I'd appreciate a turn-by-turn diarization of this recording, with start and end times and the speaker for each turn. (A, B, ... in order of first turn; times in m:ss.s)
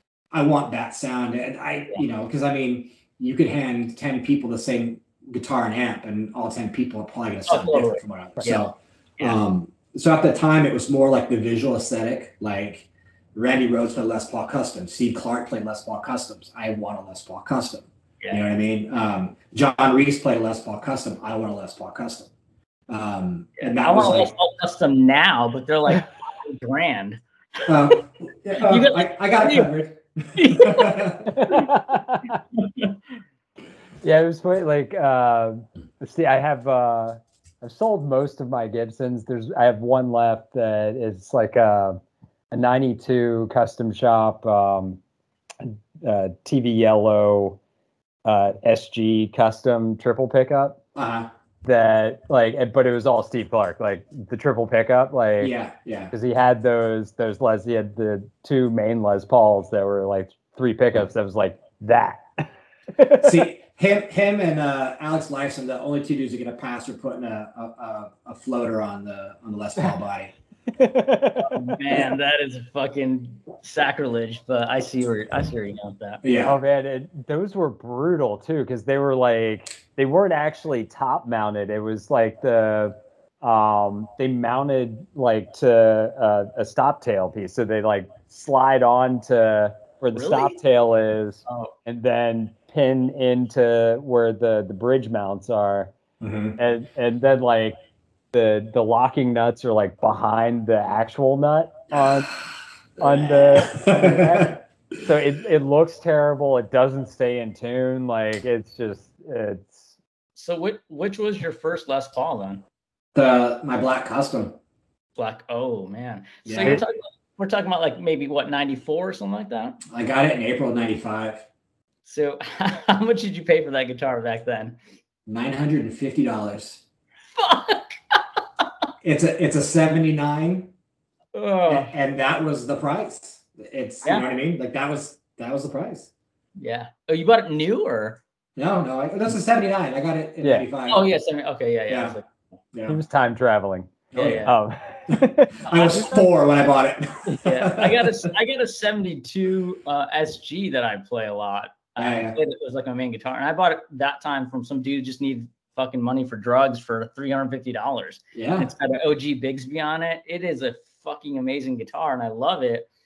0:00.3-0:22.3 A
0:07.5-0:08.7 B
0:22.9-0:24.3 A
0:23.6-0:27.9 B
0:27.7-0:31.4 A
0:28.6-0:29.7 B
0:30.4-0:31.7 B
0:31.3-0:32.4 C
0:32.6-0:33.0 B
0:34.0-0:42.0 C
0:42.5-0:45.0 C
0:45.6-0:47.6 C
0:48.3-0:50.8 C
0:51.0-0:51.3 A
0:51.6-0:55.6 C
0:55.4-0:56.1 A
0:56.1-1:03.5 C
1:03.2-1:10.3 A
1:10.7-1:11.8 C
1:11.5-1:16.2 B
1:16.2-1:16.6 A
1:16.4-1:35.9 C
1:30.2-1:30.6 B
1:31.5-1:31.7 B
1:36.2-1:36.6 A
1:36.6-1:37.8 C
1:38.3-1:42.3 C
1:43.0-1:49.9 C
1:43.0-1:44.6 A
1:50.4-1:52.6 B
1:53.2-1:54.6 A
1:55.2-1:59.8 B
1:56.5-1:56.8 A
1:59.9-2:01.5 A
2:02.1-2:04.8 B
2:05.3-2:06.8 A
2:07.4-2:08.2 B
2:09.0-2:10.7 A
2:11.3-2:11.9 B
2:11.7-2:16.1 A
2:16.6-2:18.2 B
2:18.6-2:21.1 A
2:20.9-2:22.2 B
2:21.9-2:22.2 A
2:22.7-2:23.0 A
2:22.9-2:26.2 C
2:24.1-2:24.5 A
2:24.1-2:24.6 B
2:25.1-2:28.3 A
2:25.7-2:26.2 B
2:27.4-2:42.9 B
2:32.0-2:32.4 A
2:38.4-2:38.7 A